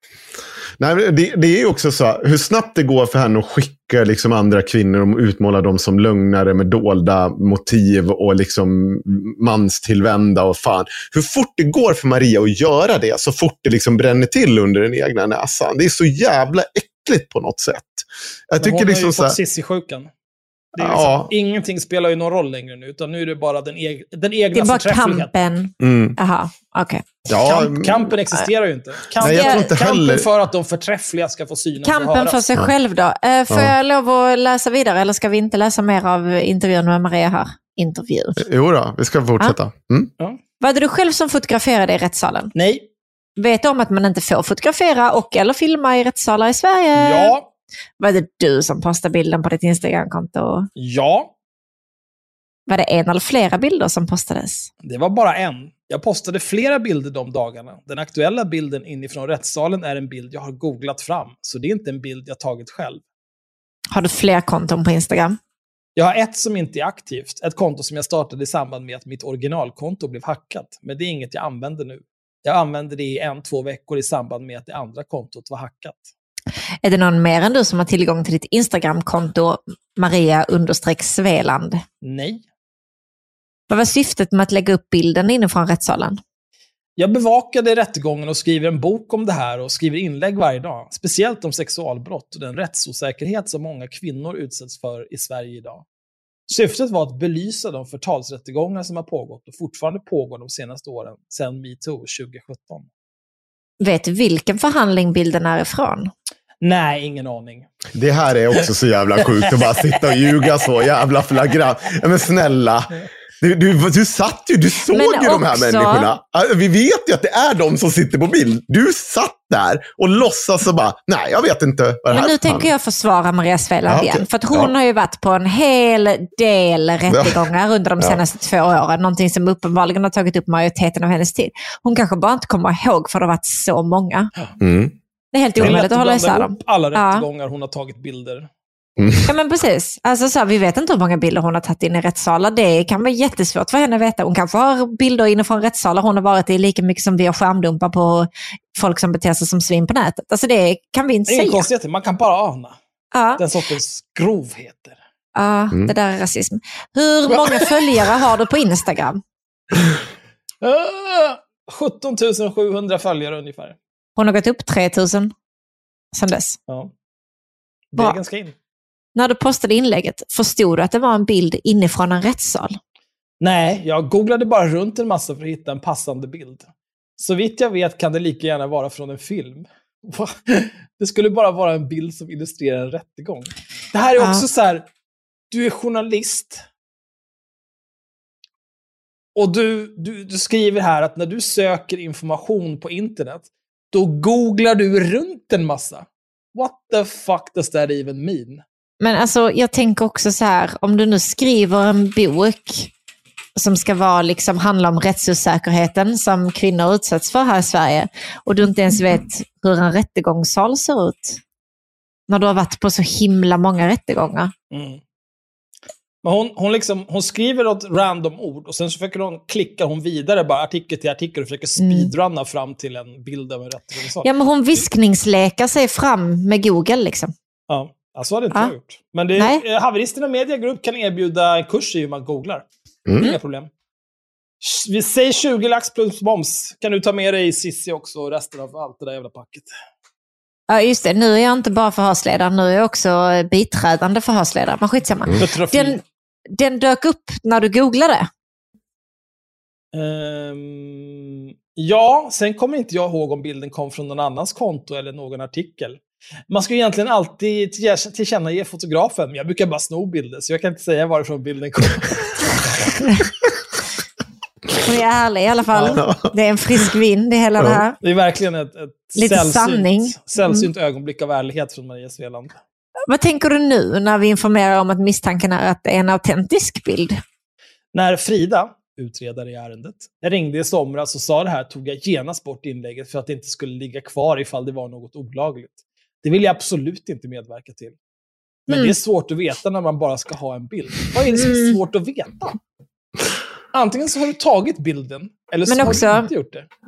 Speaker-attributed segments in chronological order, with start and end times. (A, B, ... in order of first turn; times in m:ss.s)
0:00.8-0:19.4 A
0:18.6-0:20.1 B
0:20.8-0:25.5 B
0:20.8-0:21.3 A
0:24.6-0:27.7 C
0:25.8-0:26.2 A
0:27.3-0:28.0 A
0:27.8-0:32.4 B
0:29.2-0:29.7 C
0:29.2-0:30.3 A
0:31.8-0:38.4 C
0:38.4-0:40.1 A
0:40.6-0:42.5 C
0:42.6-0:42.9 B
0:43.4-0:47.4 C
0:47.0-0:47.5 B
0:48.0-0:50.7 C
0:50.8-0:51.3 B
0:52.7-0:54.7 C
0:54.8-1:03.0 B
1:03.9-1:05.4 C
1:06.0-1:16.1 B
1:16.8-1:21.8 C
1:22.0-1:22.4 B
1:23.7-1:26.2 C
1:27.0-1:35.8 B
1:36.5-1:42.9 B
1:43.8-1:46.1 C
1:46.6-1:47.7 B
1:48.0-2:02.7 A
1:54.9-1:56.1 C
2:02.1-2:14.3 C
2:03.9-2:04.7 A
2:07.1-2:07.4 A
2:14.6-2:15.0 A
2:15.3-2:17.3 C
2:15.6-2:18.5 B
2:19.0-2:19.3 A
2:19.2-2:31.7 C
2:31.3-2:32.8 B
2:33.1-2:33.4 C
2:33.4-2:35.0 B
2:35.4-2:39.2 C
2:37.3-2:38.1 B
2:40.6-2:43.8 B
2:44.2-2:45.3 C
2:46.1-2:46.6 C
2:47.9-2:48.6 B
2:49.1-2:52.8 C
2:53.4-2:56.7 B
2:57.2-3:04.9 B
3:04.2-3:04.4 C
3:05.5-3:06.6 B
3:09.4-3:18.6 B
3:19.0-3:22.9 C
3:23.6-3:31.4 C
3:32.3-3:34.5 C
3:34.7-3:35.0 B
3:36.2-3:44.8 B
3:41.8-3:42.1 C
3:44.2-3:47.3 C
3:47.7-3:52.7 B
3:53.1-3:53.3 A
3:53.2-3:53.7 B
3:54.6-3:59.7 B
4:00.7-4:06.0 C
4:05.4-4:06.0 B
4:06.5-4:08.3 C
4:09.9-4:22.6 B
4:24.8-4:28.0 C
4:25.7-4:26.0 B
4:25.9-4:26.3 A
4:28.0-4:32.6 B
4:29.2-4:30.7 C
4:33.1-4:37.2 C
4:37.9-4:48.0 B
4:48.7-4:52.6 B
4:51.3-4:51.8 C
4:53.7-4:56.7 B
4:55.7-4:56.3 C